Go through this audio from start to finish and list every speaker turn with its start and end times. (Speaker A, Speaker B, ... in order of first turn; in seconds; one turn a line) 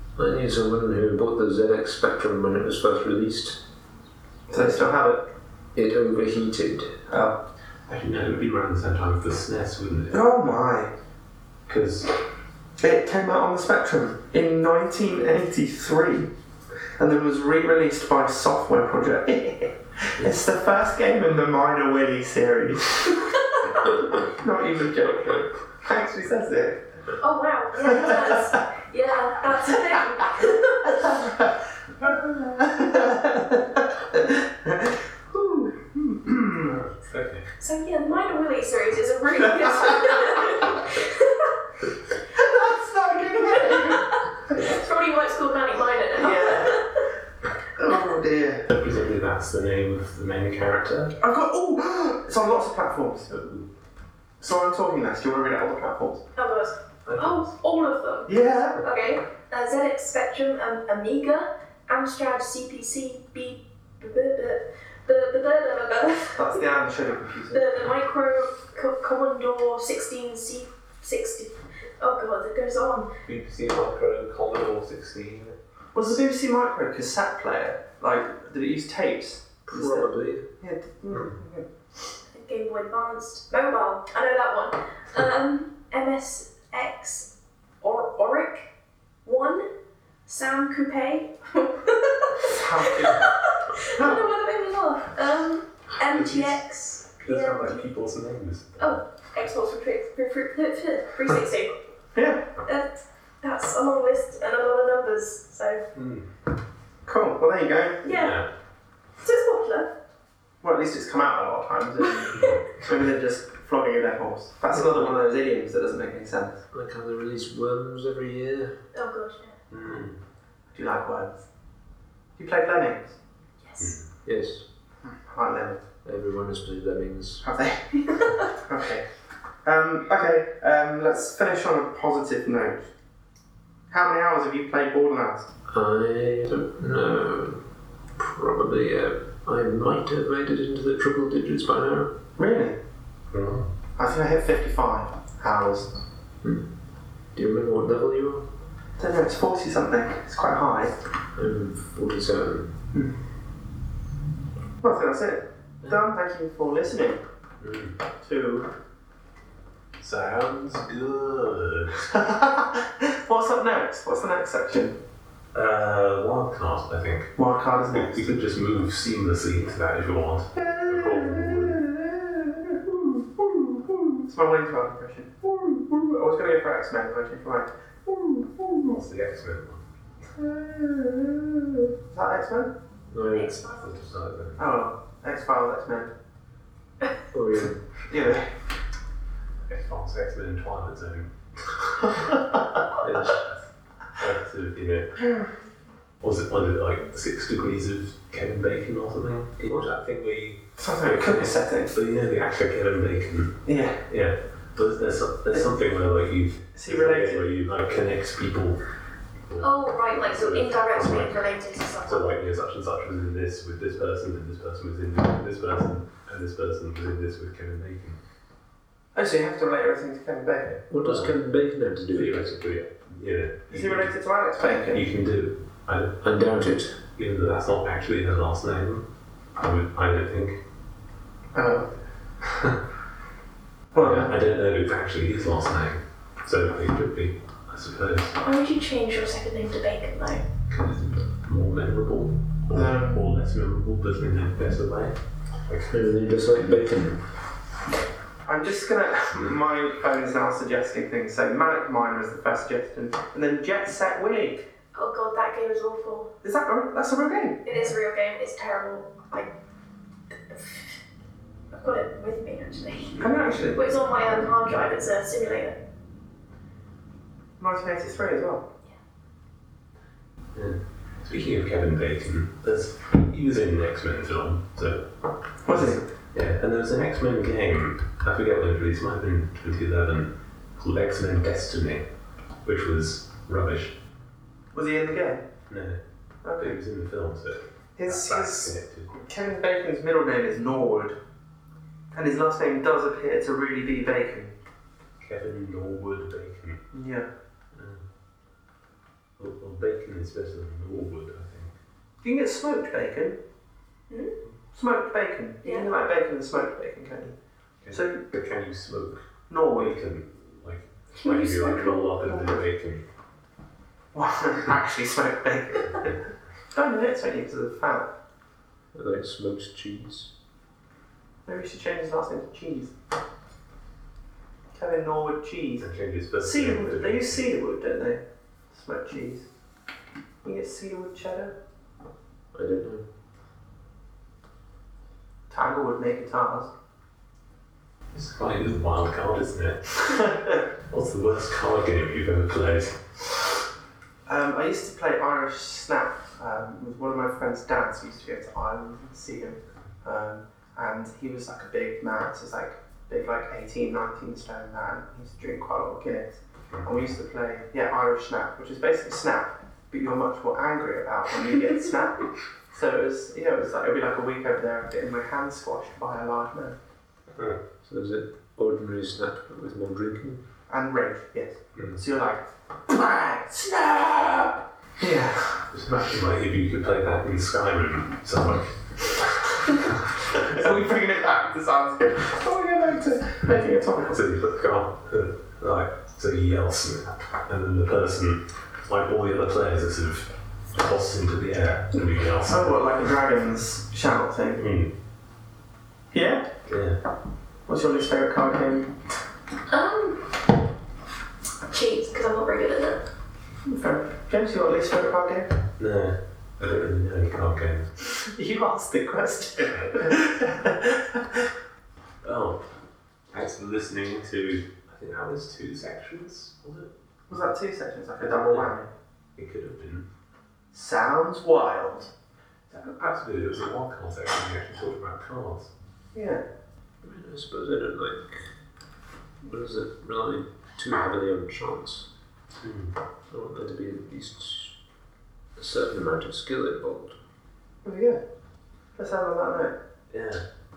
Speaker A: 0.2-3.6
Speaker B: 4.5-5.2
Speaker A: 5.7-7.0
Speaker B: 7.1-7.4
Speaker C: 7.9-10.6
Speaker B: 10.1-10.9
Speaker C: 11.7-12.1
Speaker B: 12.8-16.3
Speaker B: 17.0-23.2
Speaker B: 24.2-26.8
Speaker D: 27.2-30.9
Speaker B: 27.9-28.5
Speaker B: 32.0-36.8
Speaker C: 36.6-37.5
Speaker D: 37.6-41.3
Speaker B: 42.4-44.6
Speaker D: 43.4-44.0
Speaker D: 44.6-46.9
Speaker B: 46.2-46.8
Speaker B: 47.8-48.7
Speaker C: 48.7-51.1
Speaker B: 51.2-53.3
Speaker C: 53.3-53.7
Speaker B: 54.4-56.2
Speaker D: 56.4-66.6
Speaker C: 57.0-57.5
Speaker B: 58.3-58.8
Speaker B: 66.3-67.7
Speaker D: 67.5-73.1
Speaker C: 73.2-75.5
Speaker B: 75.9-81.6
Speaker A: 79.7-80.4
Speaker C: 81.1-81.4
Speaker D: 82.3-87.3
Speaker D: 87.8-88.7
Speaker D: 89.2-89.7
Speaker D: 90.2-97.8
Speaker B: 92.5-93.2
Speaker C: 96.1-96.6
Speaker C: 97.2-99.0
Speaker D: 98.8-101.8
Speaker B: 102.1-102.5
Speaker D: 102.6-105.8
Speaker C: 105.9-106.3
Speaker B: 107.0-108.0
Speaker D: 108.0-108.4
Speaker C: 108.0-108.5
Speaker D: 109.2-109.9
Speaker B: 110.6-116.6
Speaker A: 114.7-115.1
Speaker A: 116.7-118.7
Speaker D: 118.9-119.5
Speaker C: 119.7-120.2
Speaker B: 120.7-121.4
Speaker B: 122.4-123.2
Speaker D: 123.6-124.0
Speaker C: 123.8-124.0
Speaker A: 124.2-124.6
Speaker B: 125.1-125.8
Speaker A: 126.0-127.4
Speaker B: 127.4-127.9
Speaker B: 128.6-129.0
Speaker B: 129.6-132.9
Speaker B: 133.9-135.5
Speaker A: 135.7-137.6
Speaker A: 138.2-142.1
Speaker B: 142.4-142.8
Speaker C: 143.3-143.7
Speaker B: 144.0-145.9
Speaker A: 147.3-148.4
Speaker B: 149.0-150.9
Speaker A: 151.3-152.7
Speaker B: 154.8-157.2
Speaker C: 157.6-158.0
Speaker B: 158.2-158.7
Speaker C: 160.0-162.0
Speaker B: 162.1-165.0
Speaker C: 165.5-167.3
Speaker B: 167.4-168.3
Speaker C: 167.9-171.8
Speaker B: 170.6-179.0
Speaker C: 178.9-179.8
Speaker B: 180.4-182.7
Speaker A: 183.1-183.6
Speaker D: 183.2-184.1
Speaker C: 183.8-184.7
Speaker B: 184.6-186.1
Speaker A: 187.3-187.8
Speaker B: 188.1-188.4
Speaker C: 189.7-192.2
Speaker C: 193.0-193.6
Speaker A: 193.0-193.4
Speaker C: 194.2-195.1
Speaker C: 196.2-208.8
Speaker B: 200.8-201.9
Speaker B: 203.7-204.0
Speaker B: 206.7-207.4
Speaker C: 209.5-218.2
Speaker D: 209.6-212.4
Speaker B: 219.1-220.8
Speaker C: 220.7-221.4
Speaker A: 220.9-222.6
Speaker C: 222.1-224.1
Speaker B: 223.7-225.0
Speaker C: 224.9-226.2
Speaker A: 226.2-227.0
Speaker C: 227.1-230.6
Speaker B: 231.5-231.9
Speaker B: 233.9-234.3
Speaker C: 233.9-238.4
Speaker D: 238.4-240.4
Speaker C: 240.7-245.9
Speaker B: 242.7-243.2
Speaker A: 245.9-247.2
Speaker B: 248.4-254.7
Speaker D: 254.9-256.3
Speaker B: 256.4-257.8
Speaker D: 257.6-259.5
Speaker D: 260.3-260.9
Speaker D: 261.7-263.2
Speaker B: 263.2-264.4
Speaker D: 263.8-265.8
Speaker B: 267.6-268.6
Speaker C: 270.5-275.0
Speaker B: 275.6-276.0
Speaker C: 275.7-282.1
Speaker C: 282.6-284.0
Speaker B: 284.7-285.4
Speaker C: 285.7-286.0
Speaker B: 286.4-286.8
Speaker C: 286.6-289.1
Speaker B: 288.0-291.1
Speaker B: 292.1-294.5
Speaker C: 295.2-296.8
Speaker B: 296.9-297.3
Speaker C: 297.7-298.0
Speaker C: 299.4-301.7
Speaker B: 302.2-303.4
Speaker B: 304.7-307.3
Speaker D: 305.6-305.9
Speaker C: 307.8-313.0
Speaker B: 307.9-308.2
Speaker B: 309.5-309.9
Speaker D: 311.1-312.6
Speaker B: 314.1-316.2
Speaker B: 316.7-318.1
Speaker A: 318.9-320.3
Speaker B: 321.4-322.9
Speaker B: 324.7-325.9
Speaker C: 325.8-327.4
Speaker B: 326.4-328.2
Speaker B: 328.7-329.4
Speaker B: 330.4-331.5
Speaker A: 332.5-333.0
Speaker B: 335.5-336.7
Speaker C: 338.1-340.1
Speaker B: 340.1-340.6
Speaker C: 340.9-343.4
Speaker B: 344.3-366.8
Speaker C: 356.7-357.1
Speaker A: 367.8-370.4
Speaker B: 370.7-375.6
Speaker C: 375.7-381.0
Speaker B: 380.3-384.2
Speaker C: 384.1-392.8
Speaker B: 392.4-394.6
Speaker C: 394.6-394.9
Speaker B: 396.1-396.4
Speaker C: 396.7-397.0
Speaker B: 397.7-398.9
Speaker D: 399.7-400.4
Speaker D: 401.7-403.0
Speaker B: 403.6-405.5
Speaker C: 405.8-407.9
Speaker B: 408.2-411.4
Speaker C: 409.7-410.1
Speaker C: 412.2-412.6
Speaker C: 413.3-417.4
Speaker B: 417.3-418.9
Speaker C: 418.2-418.7
Speaker C: 419.4-420.1
Speaker B: 420.7-422.1
Speaker C: 422.8-425.7
Speaker B: 426.1-426.4
Speaker A: 427.0-428.4
Speaker A: 429.4-432.1
Speaker C: 432.6-432.9
Speaker A: 433.3-434.7
Speaker A: 435.6-437.2
Speaker B: 437.8-438.2
Speaker B: 438.9-439.7
Speaker C: 440.1-440.4